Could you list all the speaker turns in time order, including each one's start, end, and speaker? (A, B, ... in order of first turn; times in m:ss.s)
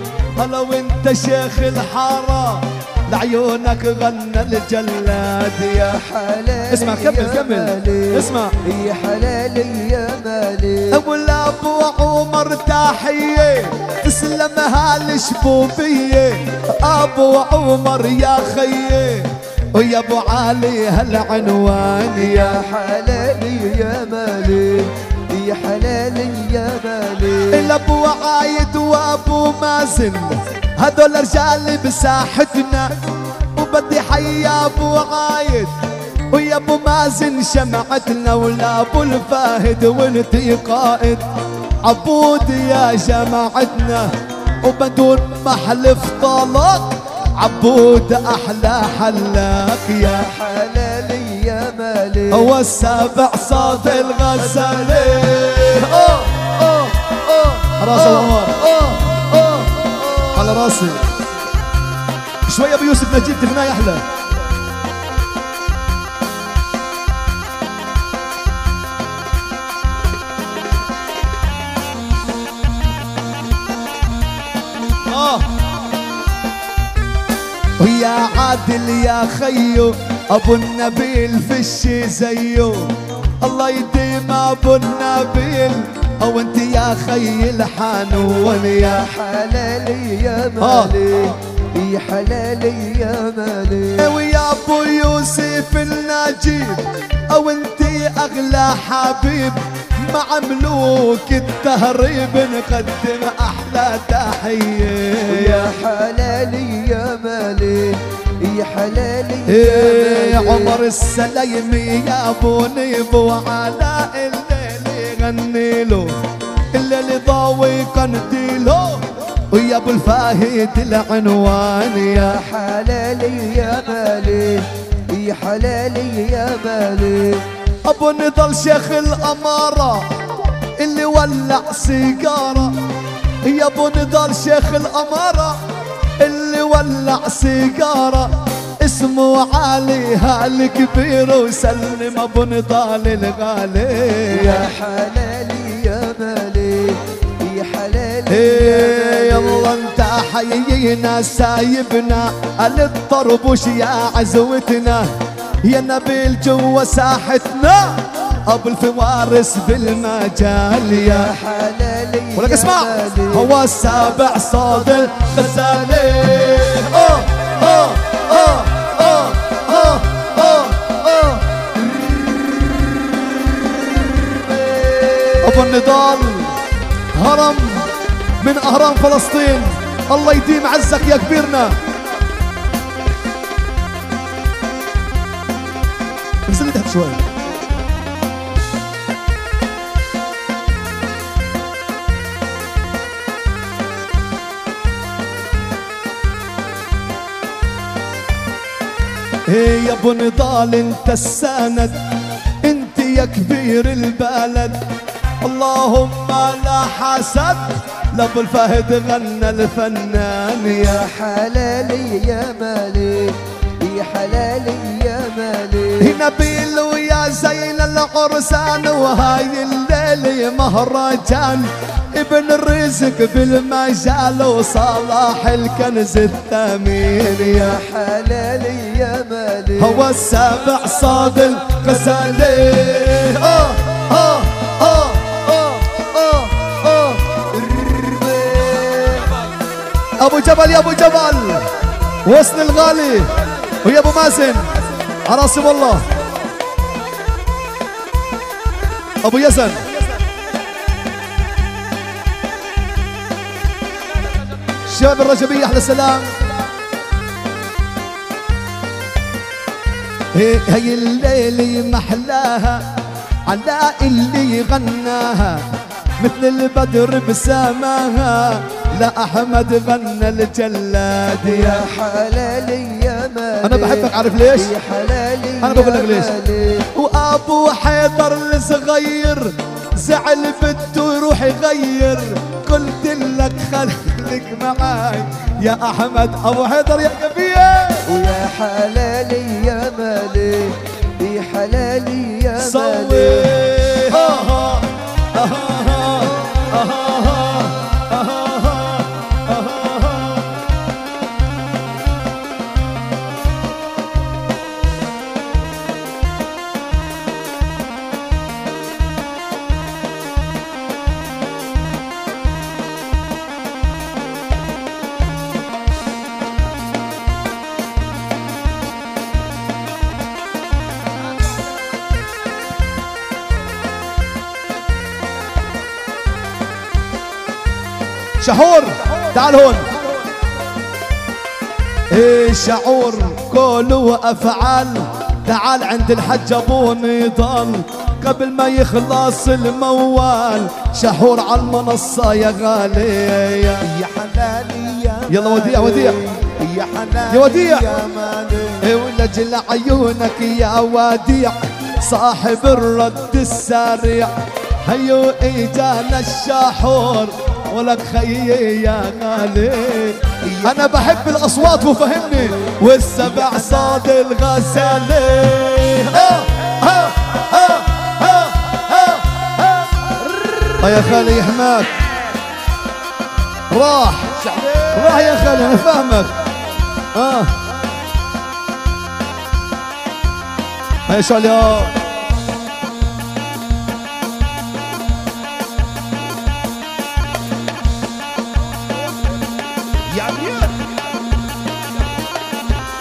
0:00.4-0:06.0 A
0:05.8-0:11.0 B
0:06.7-0:08.5 A
0:10.9-0:22.6 A
0:22.2-0:27.7 B
0:27.5-0:32.9 A
0:33.5-0:35.7 A
0:36.3-0:41.2 A
0:41.8-0:44.1 A
0:44.6-0:50.3 A
0:50.2-0:52.5 B
0:52.3-0:56.3 A
0:57.7-0:58.9 A
1:00.2-1:01.1 A
1:02.5-1:04.0 A
1:15.0-1:15.5 A
1:17.8-1:29.1 A
1:28.7-1:34.1 B
1:30.6-1:31.0 A
1:34.0-1:45.7 A
1:45.3-1:50.8 B
1:49.4-1:56.1 A
1:56.7-2:02.4 A
2:02.2-2:07.4 B
2:07.8-2:12.8 A
2:13.4-2:15.6 A
2:16.2-2:24.7 A
2:24.3-2:29.7 B
2:28.3-2:35.1 A
2:35.6-2:41.3 A
2:41.0-2:43.5 B
2:42.4-2:51.0 A
2:55.4-2:56.6 A
2:57.1-3:01.8 A
3:06.4-3:07.2 A
3:19.5-3:22.0 A
3:22.6-3:24.8 A
3:25.4-3:31.1 A
3:30.8-3:36.1 B
3:36.0-3:47.8 A
3:47.5-3:50.0 B
3:49.8-3:55.4 A
3:57.7-3:59.3 B
4:00.2-4:01.7 A
4:02.2-4:06.1 A
4:09.2-4:09.9 A
4:14.8-4:16.3 A
4:20.3-4:22.8 A
4:23.4-4:25.6 A
4:26.2-4:31.8 A
4:31.5-4:36.9 B
4:33.6-4:34.7 A
4:35.6-4:36.3 A
4:36.9-4:48.1 A
4:48.0-4:53.5 B
4:52.6-5:00.5 A
5:28.4-5:29.9 A
5:32.1-5:43.9 A
5:43.9-5:48.8 B
5:45.3-5:46.2 A
5:47.3-5:47.9 A
5:48.8-6:09.5 A
6:10.8-6:12.0 A
6:13.7-6:16.3 A
6:17.1-6:17.5 A
6:21.1-6:22.0 A
6:30.2-6:30.7 A